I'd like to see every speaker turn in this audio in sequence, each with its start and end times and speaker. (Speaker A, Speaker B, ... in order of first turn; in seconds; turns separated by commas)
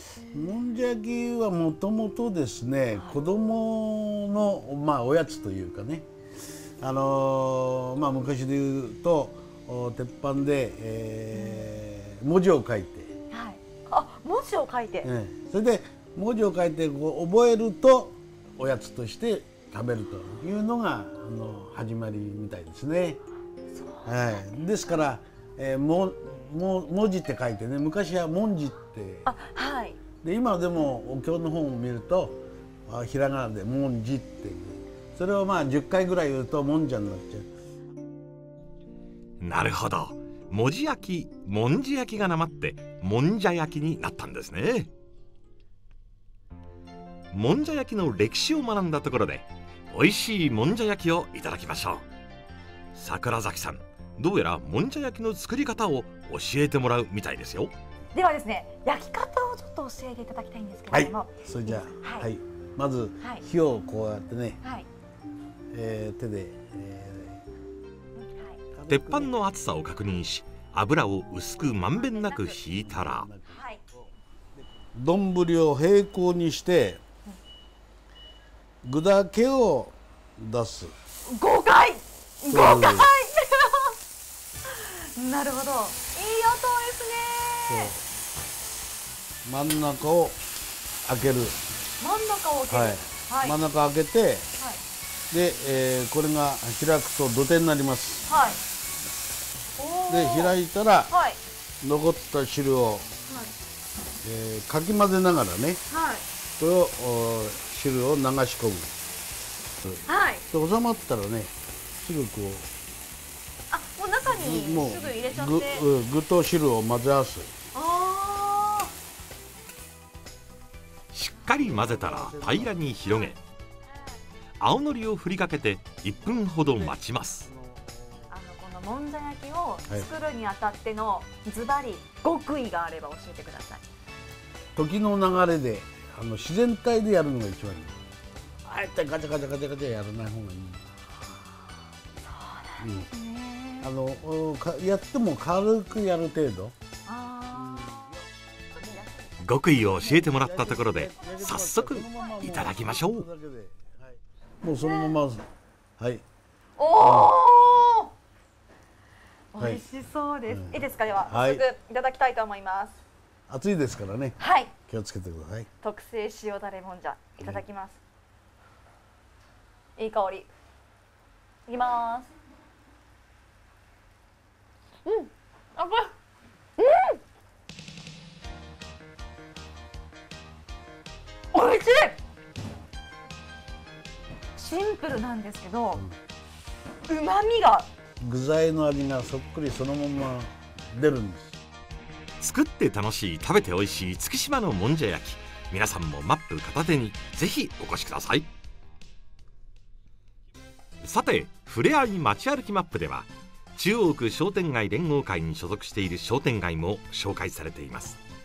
Speaker A: 0.3-6.1, Speaker A: 6.8-13.2, Speaker B: 11.3-11.7, Speaker B: 13.3-15.1, Speaker A: 15.0-23.2, Speaker B: 23.7-25.0, Speaker A: 24.1-29.3, Speaker B: 29.2-30.0, Speaker A: 30.2-37.5, Speaker C: 39.4-44.9, Speaker C: 47.3-52.0, Speaker C: 53.0-57.7, Speaker B: 58.1-62.3, Speaker A: 60.9-64.6, Speaker B: 64.6-64.9, Speaker A: 65.7-67.4, Speaker B: 68.2-68.6, Speaker A: 68.7-69.3, Speaker C: 68.9-73.3, Speaker B: 71.9-72.6, Speaker A: 72.7-77.0, Speaker B: 73.5-73.8, Speaker A: 78.8-80.9, Speaker B: 81.3-84.0, Speaker A: 82.5-83.1, Speaker B: 84.7-87.9, Speaker A: 87.7-88.0, Speaker A: 89.5-90.4, Speaker A: 91.1-91.6, Speaker B: 92.0-93.6, Speaker A: 92.7-94.5, Speaker A: 95.3-98.3, Speaker B: 98.3-98.6, Speaker B: 99.8-100.5, Speaker A: 100.1-101.1, Speaker B: 101.1-101.4, Speaker A: 101.8-103.1, Speaker B: 103.3-103.5, Speaker A: 104.2-105.8, Speaker B: 105.9-106.2, Speaker A: 106.6-108.9, Speaker A: 109.8-112.7, Speaker B: 110.1-110.4, Speaker B: 113.7-115.9, Speaker A: 114.2-117.5, Speaker B: 117.7-118.9, Speaker C: 121.1-123.4, Speaker A: 121.5-123.0, Speaker C: 124.6-127.5, Speaker A: 126.3-128.3, Speaker B: 128.3-133.8, Speaker A: 134.8-138.0, Speaker A: 138.7-140.9, Speaker B: 142.2-143.9, Speaker A: 142.8-143.1, Speaker A: 143.8-146.7, Speaker B: 147.1-148.2, Speaker B: 148.8-149.3, Speaker C: 149.4-153.3, Speaker A: 150.0-155.5, Speaker B: 154.8-155.1, Speaker A: 156.0-156.2, Speaker B: 156.8-158.1, Speaker A: 157.0-157.3, Speaker B: 159.5-163.0, Speaker A: 159.6-159.9, Speaker A: 160.5-161.7, Speaker A: 163.5-165.7, Speaker B: 164.4-164.7, Speaker B: 165.8-168.0, Speaker B: 170.0-170.5, Speaker B: 171.7-172.3, Speaker B: 175.1-176.1, Speaker B: 176.8-177.2, Speaker B: 181.5-182.2, Speaker B: 184.6-186.0, Speaker B: 187.1-187.9, Speaker A: 188.2-191.6, Speaker C: 192.4-198.5, Speaker C: 201.0-208.2